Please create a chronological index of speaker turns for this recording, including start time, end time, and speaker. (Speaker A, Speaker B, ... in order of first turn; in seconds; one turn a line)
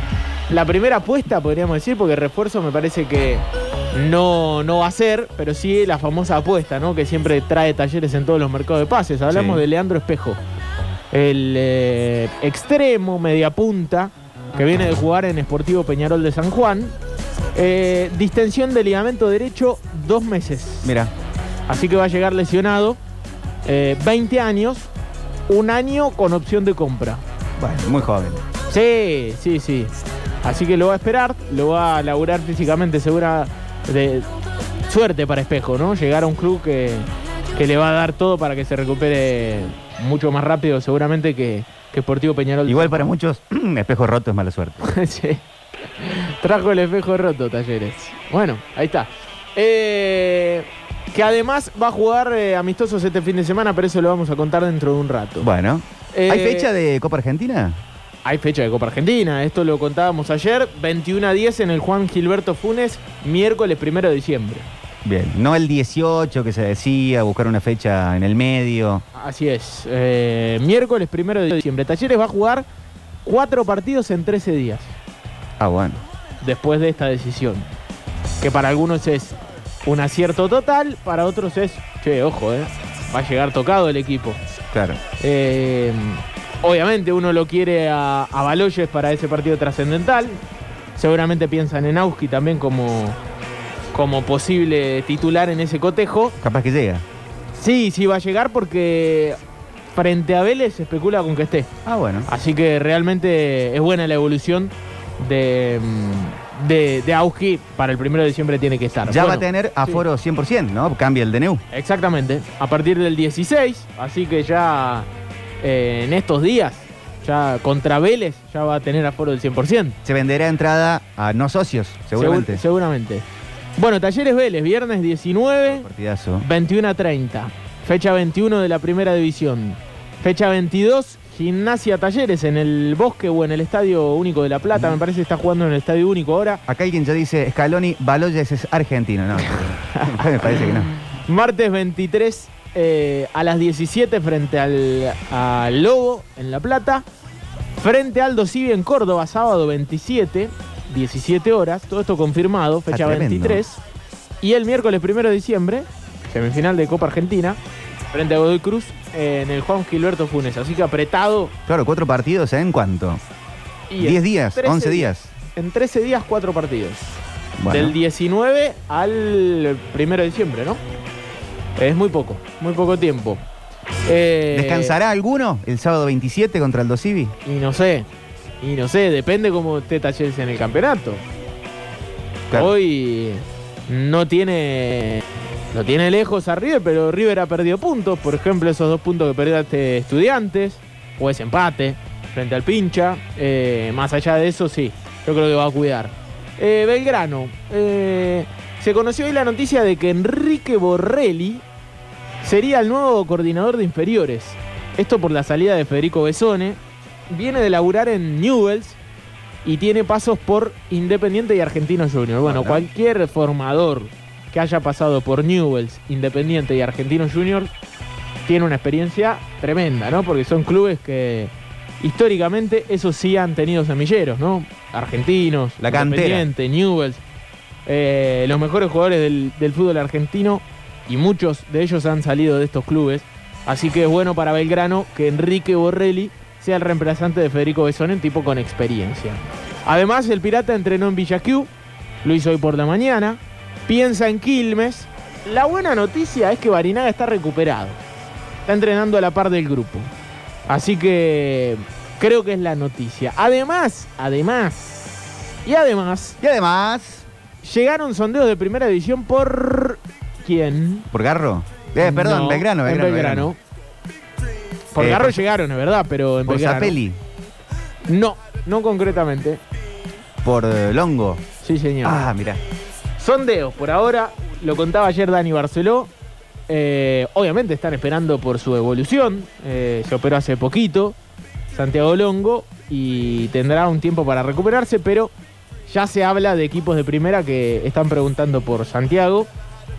Speaker A: 0.5-10.4
Speaker B: 9.3-9.6
Speaker A: 11.1-17.0
Speaker A: 17.6-20.9
Speaker B: 20.8-21.1
Speaker A: 21.7-23.0
Speaker A: 23.6-24.9
Speaker A: 25.5-27.2
Speaker B: 27.6-28.4
Speaker A: 28.7-29.9
Speaker A: 30.4-34.3
Speaker A: 34.9-43.0
Speaker B: 42.7-44.8
Speaker A: 44.8-45.4
Speaker A: 46.0-55.5
Speaker B: 55.4-57.8
Speaker A: 56.1-56.7
Speaker A: 58.2-64.7
Speaker B: 65.0-69.0
Speaker A: 69.1-72.7
Speaker A: 73.2-75.0
Speaker B: 75.6-76.0
Speaker A: 76.4-77.7
Speaker A: 78.4-84.4
Speaker B: 84.7-85.0
Speaker A: 85.2-90.4
Speaker A: 91.0-93.2
Speaker A: 93.9-96.3
Speaker B: 96.4-97.0
Speaker A: 97.6-99.4
Speaker A: 99.9-101.7
Speaker B: 101.8-102.3
Speaker A: 102.3-110.0
Speaker B: 109.1-111.6
Speaker A: 111.7-115.1
Speaker A: 115.6-120.0
Speaker B: 120.0-122.6
Speaker A: 122.2-123.2
Speaker A: 123.8-125.9
Speaker B: 125.7-126.5
Speaker A: 126.4-136.6
Speaker B: 136.7-140.9
Speaker A: 139.5-140.8
Speaker A: 141.3-147.1
Speaker A: 147.8-153.8
Speaker B: 152.9-153.6
Speaker A: 154.4-157.6
Speaker A: 158.1-161.5
Speaker B: 161.7-163.2
Speaker A: 163.9-167.2
Speaker B: 164.0-165.3
Speaker B: 167.6-167.9
Speaker A: 167.7-170.8
Speaker A: 171.8-173.4
Speaker A: 174.1-175.0
Speaker B: 174.5-177.3
Speaker A: 177.4-178.1
Speaker A: 178.6-181.2
Speaker A: 182.5-201.6
Speaker A: 202.4-206.8
Speaker A: 207.3-209.0
Speaker A: 209.6-217.7
Speaker B: 212.4-212.9
Speaker A: 218.5-227.2
Speaker B: 225.8-226.5
Speaker A: 227.9-241.7
Speaker A: 242.2-248.0
Speaker A: 248.7-250.1
Speaker A: 250.7-255.1
Speaker A: 255.7-256.4
Speaker B: 256.4-257.3
Speaker A: 257.6-261.1
Speaker B: 261.1-263.5
Speaker A: 262.0-263.6
Speaker A: 264.9-267.0
Speaker B: 265.0-265.4
Speaker B: 266.5-267.2
Speaker A: 268.1-269.6
Speaker B: 270.4-271.4
Speaker A: 271.6-272.2
Speaker B: 272.0-272.6
Speaker A: 273.2-276.1
Speaker A: 276.7-281.2
Speaker A: 281.7-285.3
Speaker A: 285.9-289.5